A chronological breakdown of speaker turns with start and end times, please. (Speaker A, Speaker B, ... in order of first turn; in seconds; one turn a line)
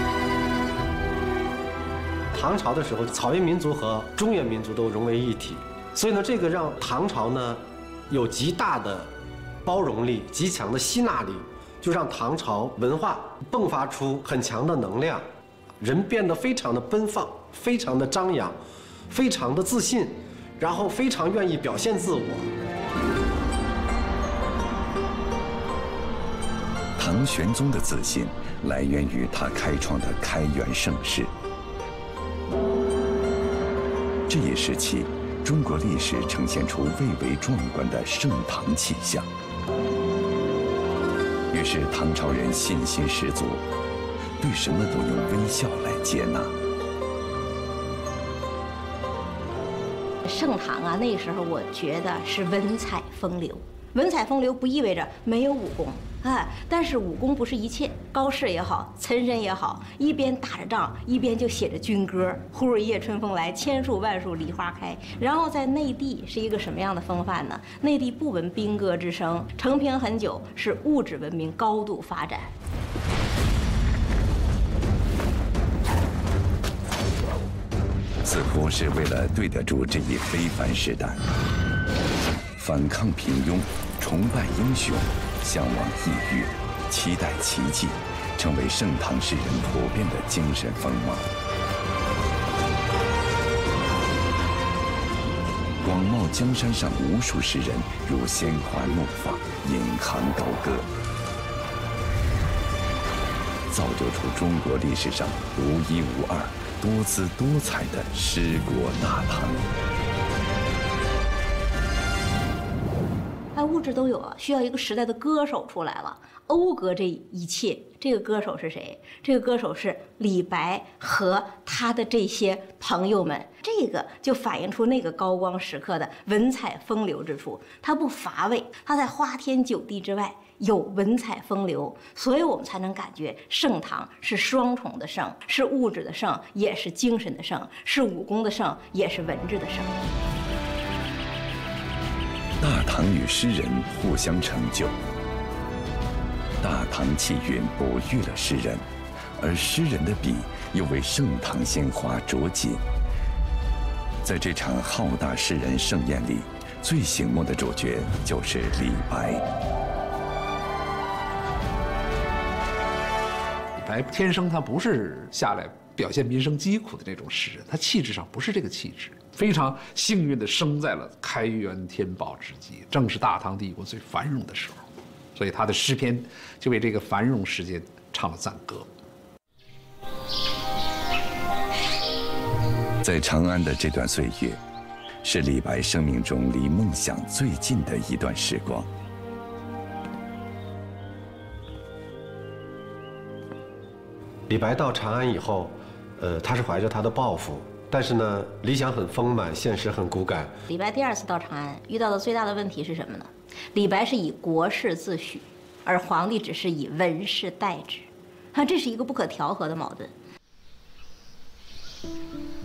Speaker A: 2.3-9.1
Speaker A: 9.6-15.2
Speaker A: 15.8-18.6
Speaker A: 19.1-22.5
Speaker B: 27.0-31.3
Speaker B: 34.3-39.3
Speaker B: 41.5-43.6
Speaker B: 44.4-46.5
Speaker C: 50.2-72.5
Speaker B: 78.2-81.2
Speaker B: 82.5-91.3
Speaker B: 95.8-100.9
Speaker B: 103.7-109.7
Speaker C: 113.5-140.0
Speaker B: 142.6-145.0
Speaker B: 146.6-148.8
Speaker B: 149.4-152.8
Speaker B: 154.2-159.4
Speaker D: 163.8-174.8
Speaker D: 175.3-178.9
Speaker B: 183.0-184.6
Speaker B: 185.2-188.9
Speaker A: 194.5-200.6
Speaker C: 200.7-210.1